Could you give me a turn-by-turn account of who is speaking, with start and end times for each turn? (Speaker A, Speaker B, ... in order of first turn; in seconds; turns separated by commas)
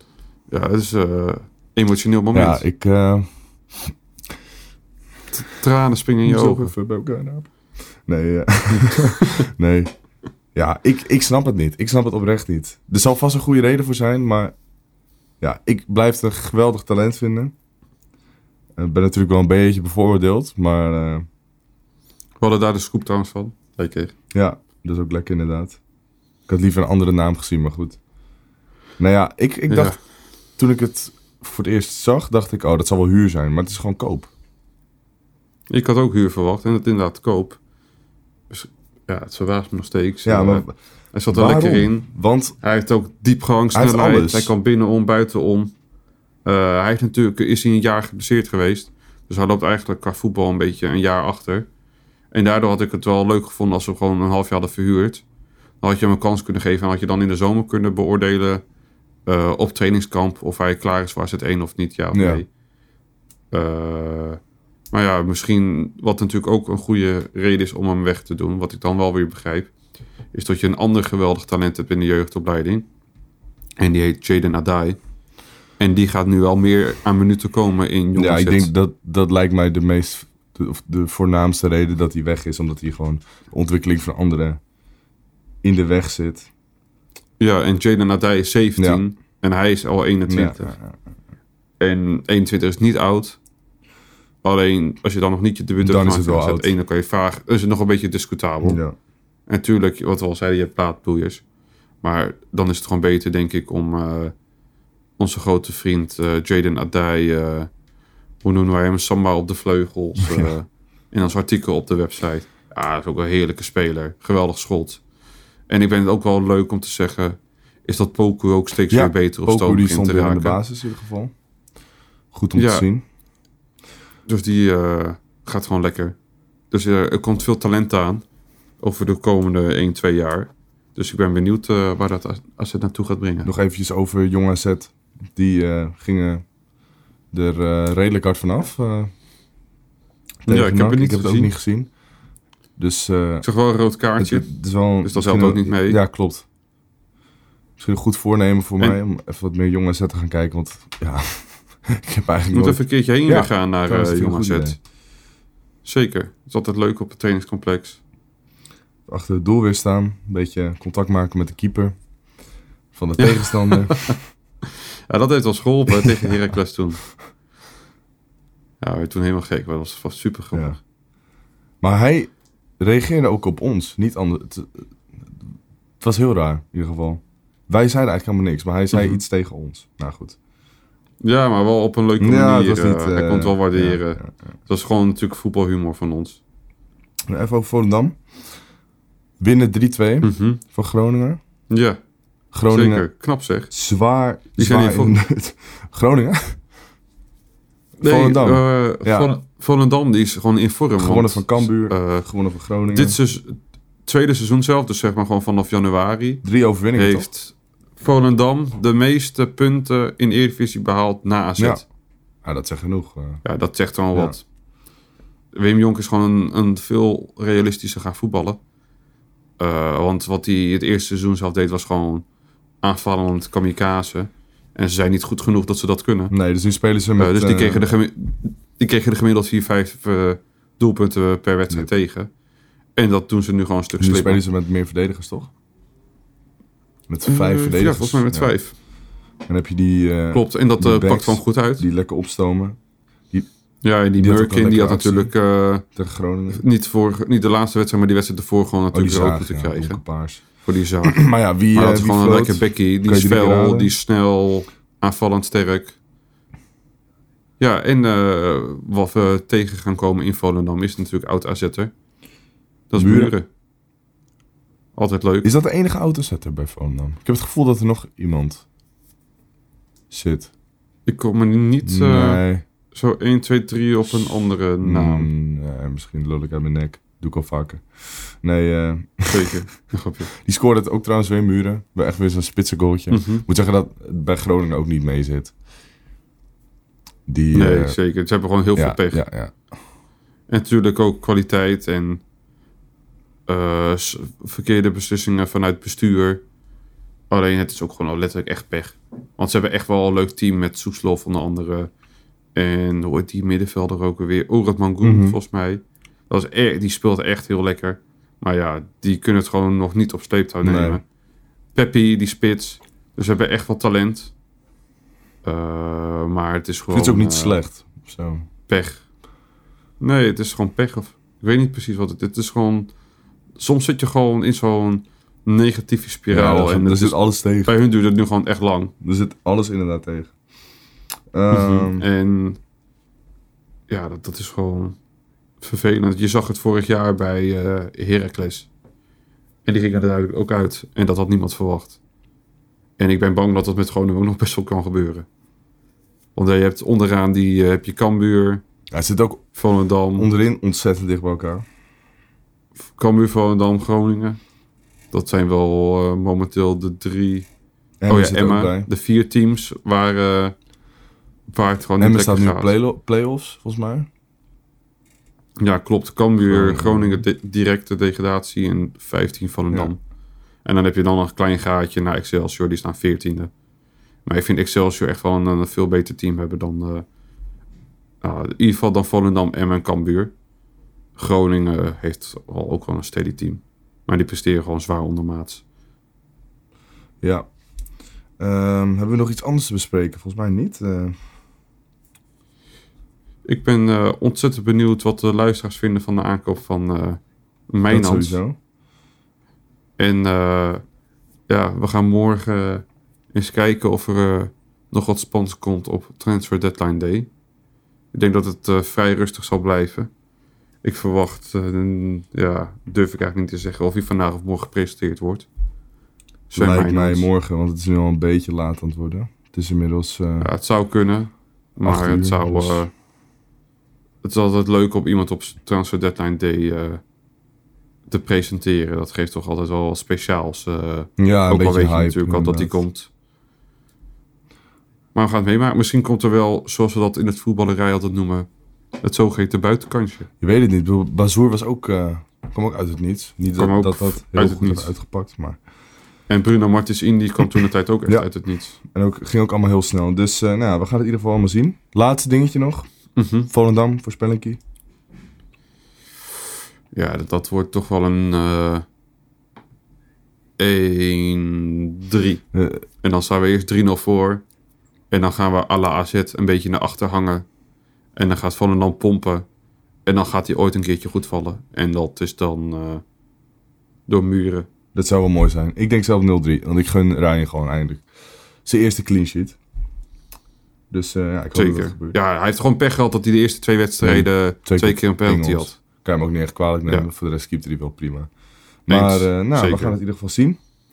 Speaker A: 0.5-2.6, Speaker B: 2.3-3.9, Speaker A: 5.3-6.7, Speaker B: 6.2-9.9, Speaker B: 10.5-14.5, Speaker B: 15.4-17.5, Speaker B: 18.8-21.2, Speaker A: 22.4-24.1, Speaker B: 24.3-25.8, Speaker B: 26.5-28.0, Speaker B: 29.0-34.3, Speaker A: 29.7-30.0, Speaker A: 35.7-37.6, Speaker A: 38.5-45.7, Speaker B: 40.2-42.5, Speaker B: 43.7-44.5, Speaker A: 46.4-51.7, Speaker A: 52.3-55.2, Speaker A: 55.8-58.6, Speaker A: 59.2-62.5, Speaker B: 62.1-62.4, Speaker A: 63.5-64.4, Speaker A: 64.9-69.7, Speaker A: 70.3-72.9, Speaker A: 73.8-75.0, Speaker A: 75.8-78.7, Speaker B: 78.2-84.6, Speaker B: 85.6-86.5, Speaker A: 87.4-90.7, Speaker B: 88.8-89.0, Speaker B: 90.3-91.0, Speaker A: 91.8-93.4, Speaker A: 94.4-98.8, Speaker B: 95.8-96.7, Speaker B: 98.6-98.9, Speaker A: 99.5-101.4, Speaker A: 102.0-104.3, Speaker A: 105.2-107.7, Speaker A: 108.4-115.0, Speaker A: 115.7-120.6, Speaker B: 118.9-121.3, Speaker B: 122.3-123.0, Speaker A: 122.5-122.8, Speaker A: 124.3-126.2, Speaker A: 126.7-128.2, Speaker A: 128.8-133.5, Speaker B: 133.4-136.4, Speaker B: 137.3-139.1, Speaker B: 140.4-141.9, Speaker A: 140.5-141.5, Speaker B: 142.8-143.5, Speaker A: 143.4-144.5, Speaker B: 144.2-146.4, Speaker A: 145.0-146.0, Speaker B: 147.8-154.8, Speaker A: 152.5-154.8, Speaker A: 155.8-158.0, Speaker B: 159.1-161.9, Speaker B: 162.9-164.2, Speaker A: 163.2-164.2, Speaker A: 165.1-167.0, Speaker A: 168.8-170.7, Speaker B: 170.5-170.8, Speaker B: 171.8-175.4, Speaker B: 176.0-180.4, Speaker A: 178.9-179.2, Speaker A: 181.2-186.4, Speaker B: 182.2-184.3, Speaker B: 187.3-188.5, Speaker B: 189.4-191.4, Speaker A: 190.2-190.6, Speaker A: 191.7-192.0, Speaker B: 192.5-193.1, Speaker A: 192.7-193.7, Speaker B: 193.7-196.6, Speaker A: 194.6-195.2, Speaker A: 198.0-202.3, Speaker B: 198.0-199.3, Speaker B: 201.0-203.2, Speaker A: 202.9-211.8, Speaker B: 206.4-207.3, Speaker B: 211.6-211.8, Speaker B: 212.4-213.4, Speaker A: 213.4-214.4, Speaker B: 214.1-214.4, Speaker A: 215.5-218.6, Speaker A: 219.6-222.2, Speaker A: 222.8-226.3, Speaker B: 226.3-227.8, Speaker A: 227.2-232.3, Speaker A: 232.9-234.4, Speaker B: 234.0-235.5, Speaker B: 237.1-238.5, Speaker A: 237.3-238.7, Speaker B: 239.4-242.8, Speaker A: 240.3-241.8, Speaker A: 243.8-245.8, Speaker B: 244.2-245.3, Speaker B: 245.8-246.6, Speaker A: 246.5-255.9, Speaker B: 248.9-250.4, Speaker B: 251.0-253.9, Speaker A: 257.6-261.9, Speaker A: 262.9-263.4, Speaker B: 262.9-263.3, Speaker A: 264.9-265.5, Speaker B: 265.4-268.6, Speaker B: 270.1-270.5, Speaker A: 271.1-275.3, Speaker B: 271.8-272.6, Speaker B: 274.1-279.6, Speaker A: 279.3-280.3, Speaker B: 280.4-285.6, Speaker A: 283.1-283.4, Speaker B: 287.2-288.0, Speaker A: 287.5-289.2, Speaker B: 288.8-289.8, Speaker A: 290.5-292.2, Speaker A: 293.5-296.4, Speaker A: 297.3-301.9, Speaker A: 302.5-311.0, Speaker B: 305.0-305.4, Speaker B: 310.6-311.0, Speaker A: 311.7-314.3, Speaker A: 315.4-317.6, Speaker B: 316.9-318.4, Speaker A: 318.7-319.1, Speaker A: 320.0-322.9, Speaker A: 323.6-328.9, Speaker B: 326.3-327.7, Speaker B: 329.0-330.4, Speaker B: 331.3-332.1, Speaker A: 331.5-332.6, Speaker A: 333.9-335.0, Speaker A: 335.6-338.7, Speaker A: 339.6-342.0, Speaker A: 343.0-345.3, Speaker A: 346.3-348.6, Speaker B: 348.9-349.5, Speaker A: 349.5-350.3, Speaker B: 350.1-351.6, Speaker A: 352.9-354.4, Speaker A: 355.1-357.5, Speaker B: 358.0-358.9, Speaker A: 358.1-360.5, Speaker A: 361.5-362.7, Speaker B: 362.0-364.1, Speaker A: 365.6-370.0, Speaker B: 366.4-367.2, Speaker A: 370.6-373.5, Speaker A: 374.2-377.1, Speaker A: 378.2-380.3, Speaker A: 381.1-385.6, Speaker B: 387.2-387.5, Speaker B: 388.4-391.2, Speaker A: 393.4-398.4, Speaker B: 397.9-398.6, Speaker A: 400.0-400.8, Speaker A: 401.5-407.3, Speaker A: 408.1-410.1, Speaker A: 410.8-415.5, Speaker A: 416.5-417.2, Speaker B: 416.5-420.5, Speaker A: 420.4-422.9, Speaker B: 421.8-422.8, Speaker A: 424.2-427.0, Speaker A: 428.1-433.1, Speaker B: 431.2-432.8, Speaker A: 435.1-438.5, Speaker A: 439.0-440.3, Speaker B: 440.4-445.6, Speaker A: 443.6-444.9, Speaker A: 446.3-448.8, Speaker B: 448.1-454.6, Speaker A: 453.1-453.5, Speaker A: 456.9-458.8, Speaker A: 460.6-462.4, Speaker B: 462.5-462.8, Speaker A: 463.0-464.4, Speaker A: 465.1-467.4, Speaker A: 468.1-469.4, Speaker A: 470.1-473.0, Speaker A: 474.1-474.7, Speaker B: 474.9-478.1, Speaker B: 478.6-479.6, Speaker B: 480.9-482.2, Speaker A: 481.5-485.8, Speaker B: 484.0-488.3, Speaker B: 488.9-490.6, Speaker A: 488.9-489.9